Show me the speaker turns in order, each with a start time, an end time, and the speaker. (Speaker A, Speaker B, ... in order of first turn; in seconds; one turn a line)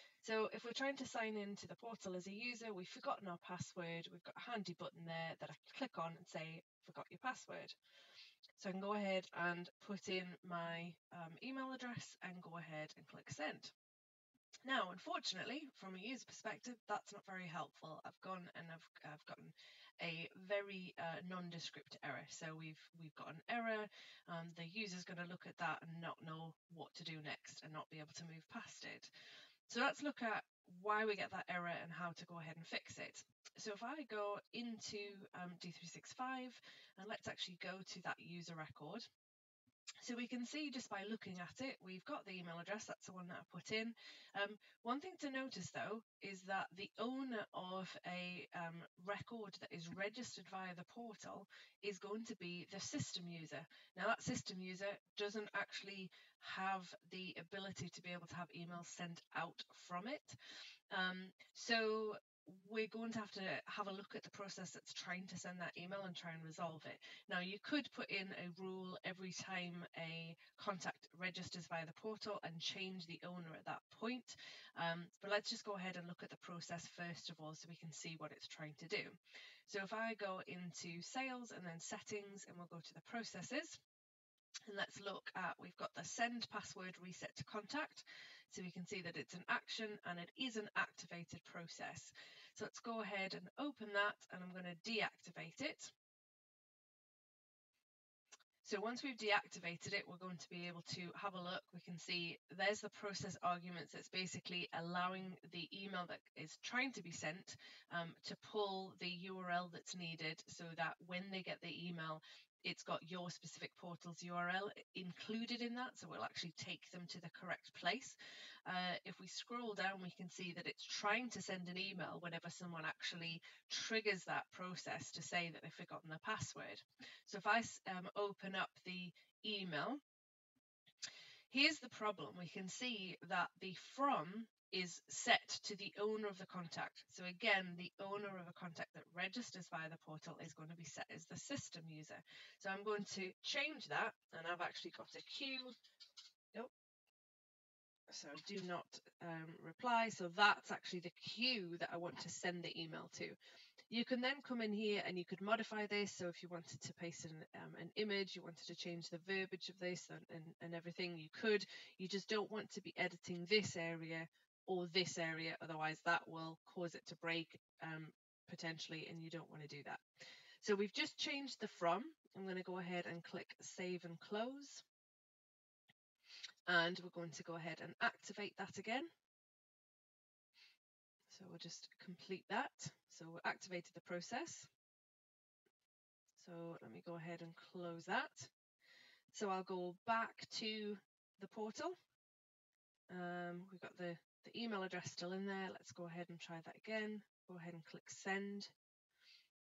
Speaker A: 0.2-7.8
Speaker A: 8.6-13.7
Speaker A: 14.7-29.1
Speaker A: 29.7-39.1
Speaker A: 40.0-60.4
Speaker A: 60.9-83.8
Speaker A: 84.7-95.9
Speaker A: 98.6-130.0
Speaker A: 131.5-145.8
Speaker A: 148.1-153.4
Speaker A: 153.9-170.0
Speaker A: 170.6-174.8
Speaker A: 176.7-179.1
Speaker A: 181.3-184.7
Speaker A: 186.4-188.5
Speaker A: 189.3-191.9
Speaker A: 193.1-198.7